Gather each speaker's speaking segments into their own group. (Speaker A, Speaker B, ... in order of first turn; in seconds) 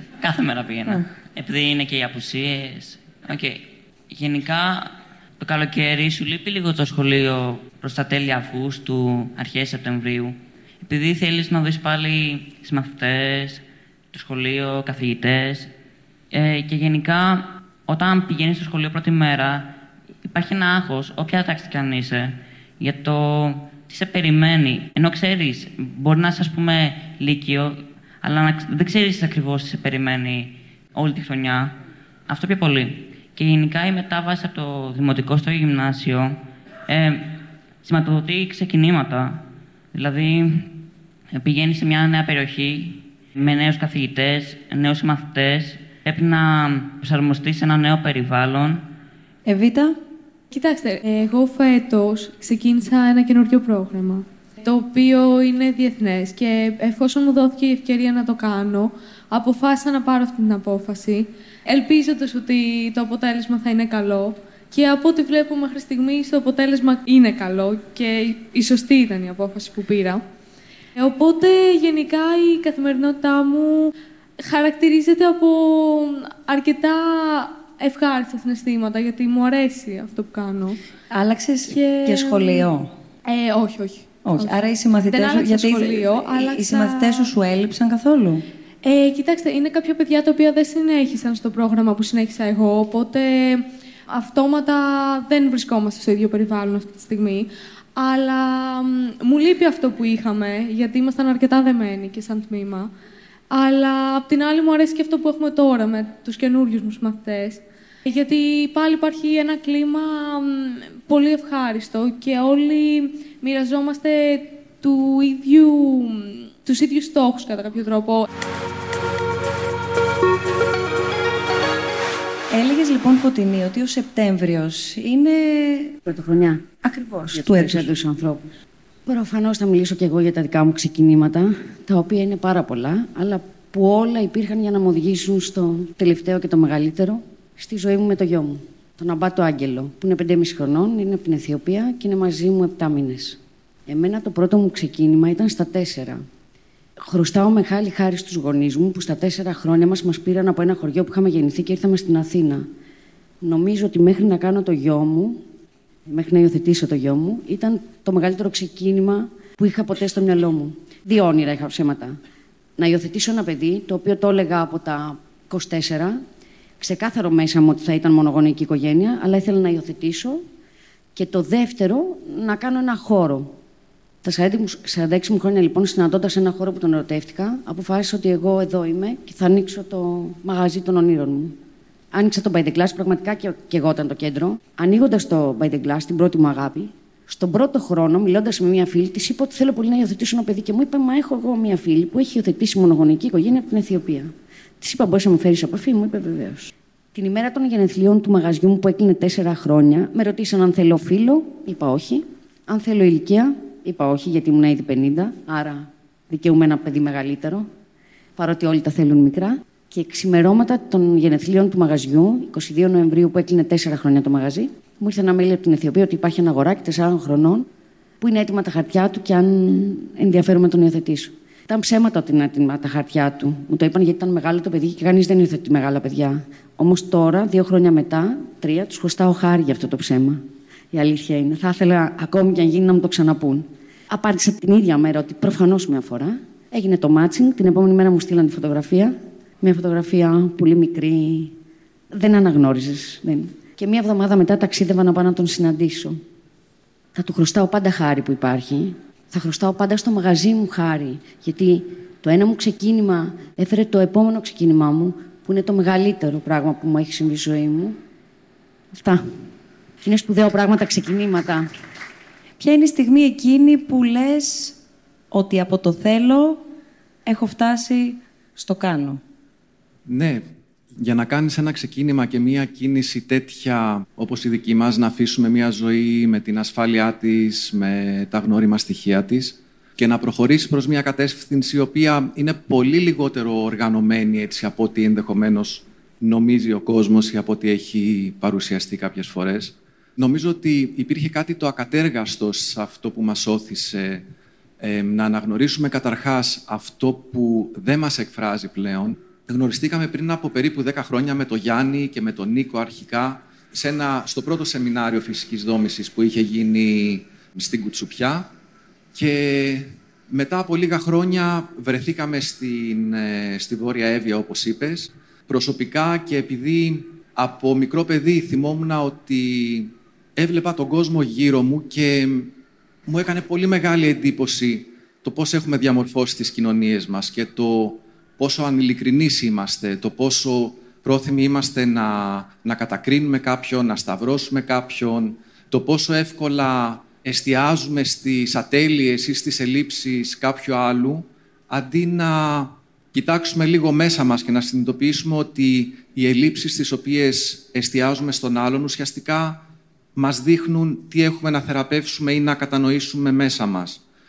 Speaker A: 0.2-15.7, 16.3-31.8, 32.3-48.9
Speaker B: 49.5-50.0, 81.1-82.9, 84.2-88.4, 122.5-126.0, 126.8-127.9, 262.6-264.8, 265.3-266.6, 267.3-269.2
Speaker C: 50.5-70.2, 71.0-80.8, 81.7-82.7, 83.3-87.3, 88.8-102.9, 103.5-118.2
Speaker D: 126.1-146.2, 147.1-152.7, 153.4-155.4, 156.1-162.2, 162.8-166.2, 166.8-170.4, 171.2-173.6, 174.2-181.6, 182.1-207.7, 208.4-217.7, 218.2-241.6, 242.1-246.2, 247.2-258.0, 258.9-259.2, 260.0-261.7
Speaker E: 270.1-270.4, 271.0-294.2, 294.8-308.5, 309.1-322.5, 323.1-349.6, 350.2-354.0